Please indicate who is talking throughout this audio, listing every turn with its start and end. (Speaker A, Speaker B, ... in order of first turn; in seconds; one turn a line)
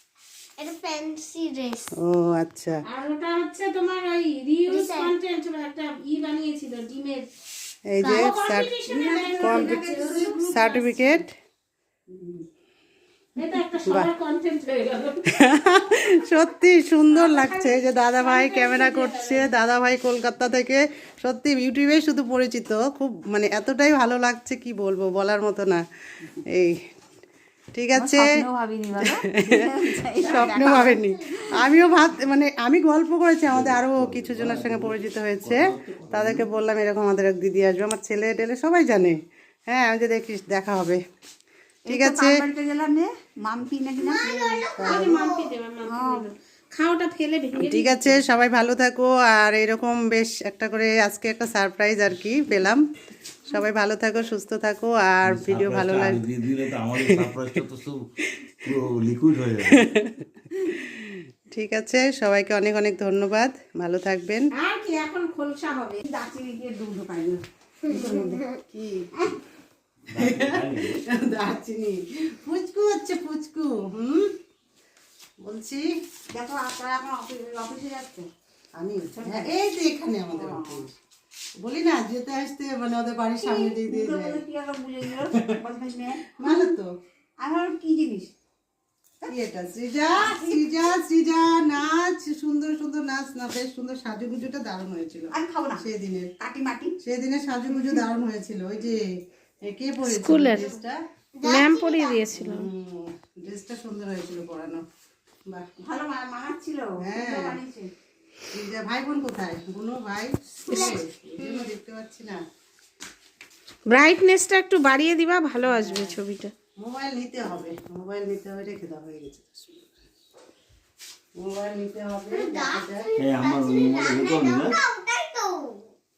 Speaker A: 0.6-1.9
Speaker B: 2.0-2.8
Speaker C: 2.9-7.3
Speaker A: 4.7-5.1
Speaker B: 7.9-8.7
Speaker C: 8.0-11.2
Speaker D: 8.9-10.5
Speaker B: 9.4-11.3
Speaker D: 12.1-12.4
Speaker C: 13.3-16.4
Speaker B: 13.8-14.1
Speaker B: 15.2-25.8
Speaker C: 17.1-19.5
Speaker B: 26.5-26.8
Speaker B: 27.7-28.3
Speaker D: 27.9-31.7
Speaker B: 29.0-41.0
Speaker E: 33.5-36.5
Speaker D: 41.9-45.2
Speaker B: 41.9-42.4
Speaker C: 44.0-48.2
Speaker B: 44.8-45.2
Speaker D: 45.8-46.3
Speaker B: 47.6-52.8
Speaker B: 53.5-56.2
Speaker E: 55.2-58.0
Speaker B: 56.9-57.4
Speaker E: 58.6-60.0
Speaker B: 59.7-60.1
Speaker B: 60.9-64.5
Speaker C: 64.5-66.0
Speaker D: 66.0-67.4
Speaker B: 67.9-69.1
Speaker E: 70.1-71.0
Speaker B: 70.2-74.3
Speaker B: 75.4-75.8
Speaker D: 76.3-78.3
Speaker B: 78.8-80.9
Speaker D: 79.1-79.6
Speaker D: 80.2-80.9
Speaker B: 81.6-84.4
Speaker D: 83.4-86.7
Speaker B: 86.3-86.9
Speaker D: 87.4-88.3
Speaker B: 89.3-96.3
Speaker D: 90.1-90.7
Speaker D: 95.3-95.8
Speaker D: 96.4-97.0
Speaker B: 97.0-99.0
Speaker B: 99.6-101.0
Speaker C: 100.0-100.7
Speaker C: 101.4-102.7
Speaker A: 101.5-102.1
Speaker B: 102.3-104.8
Speaker D: 105.8-107.9
Speaker B: 107.0-107.6
Speaker B: 108.5-112.4
Speaker C: 110.7-111.7
Speaker C: 113.9-116.5
Speaker B: 115.6-116.2
Speaker B: 116.8-119.9
Speaker B: 121.4-123.1
Speaker A: 122.3-125.8
Speaker E: 123.1-124.8